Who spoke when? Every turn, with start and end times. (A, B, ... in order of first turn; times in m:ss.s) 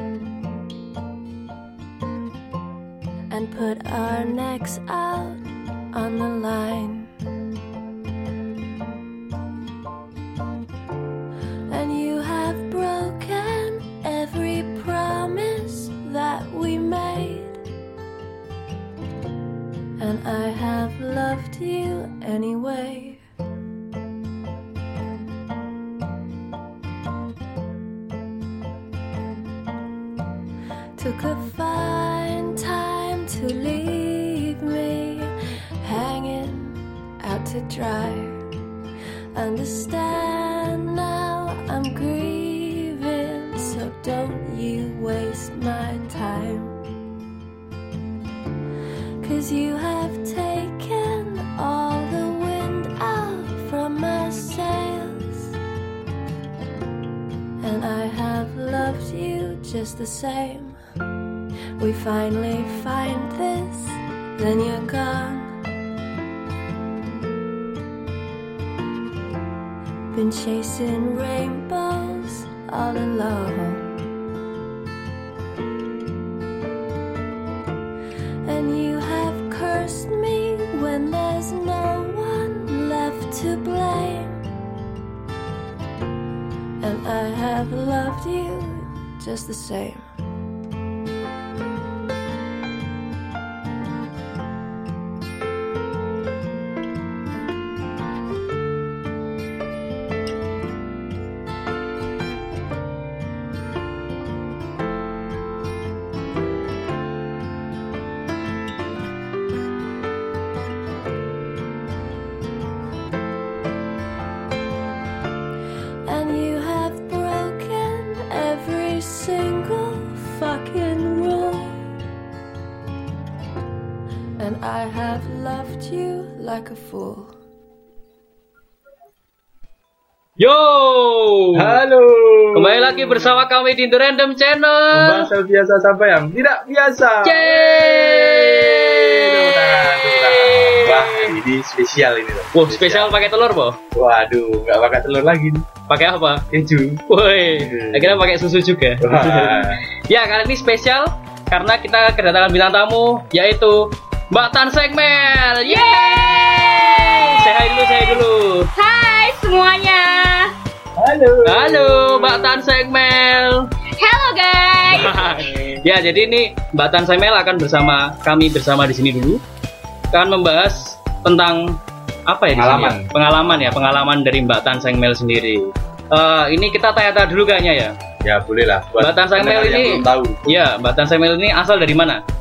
0:03.3-0:07.1 A
0:11.7-0:17.6 A
0:20.0-0:23.2 A
0:31.0-0:38.4 A
0:39.3-0:46.8 A
0:49.2-0:55.5 A
0:57.6-1:00.8 A
1:01.8-1:05.5 A
1:10.1-1:14.0 A
1:18.4-1:24.4 A
1:26.8-1:30.0 A
1:56.0-2:01.9 A
2:04.4-2:07.3 A
2:10.4-2:11.8 B
2:11.5-2:13.4 C
2:12.5-2:15.3 B
2:14.9-2:23.2 C
2:17.2-2:21.3 B
2:22.5-2:23.8 B
2:23.9-2:25.7 C
2:25.9-2:26.4 B
2:26.5-2:27.0 C
2:27.1-2:38.7 B
2:27.5-2:28.2 C
2:29.0-2:29.8 C
2:35.6-2:38.2 D
2:38.8-2:40.5 D
2:41.0-2:42.5 C
2:41.4-2:43.7 B
2:44.0-2:45.5 D
2:44.9-2:49.4 B
2:44.9-2:45.1 C
2:50.1-2:51.8 B
2:52.3-2:57.9 B
2:52.5-2:53.3 C
2:58.2-3:00.6 C
2:59.0-3:02.2 B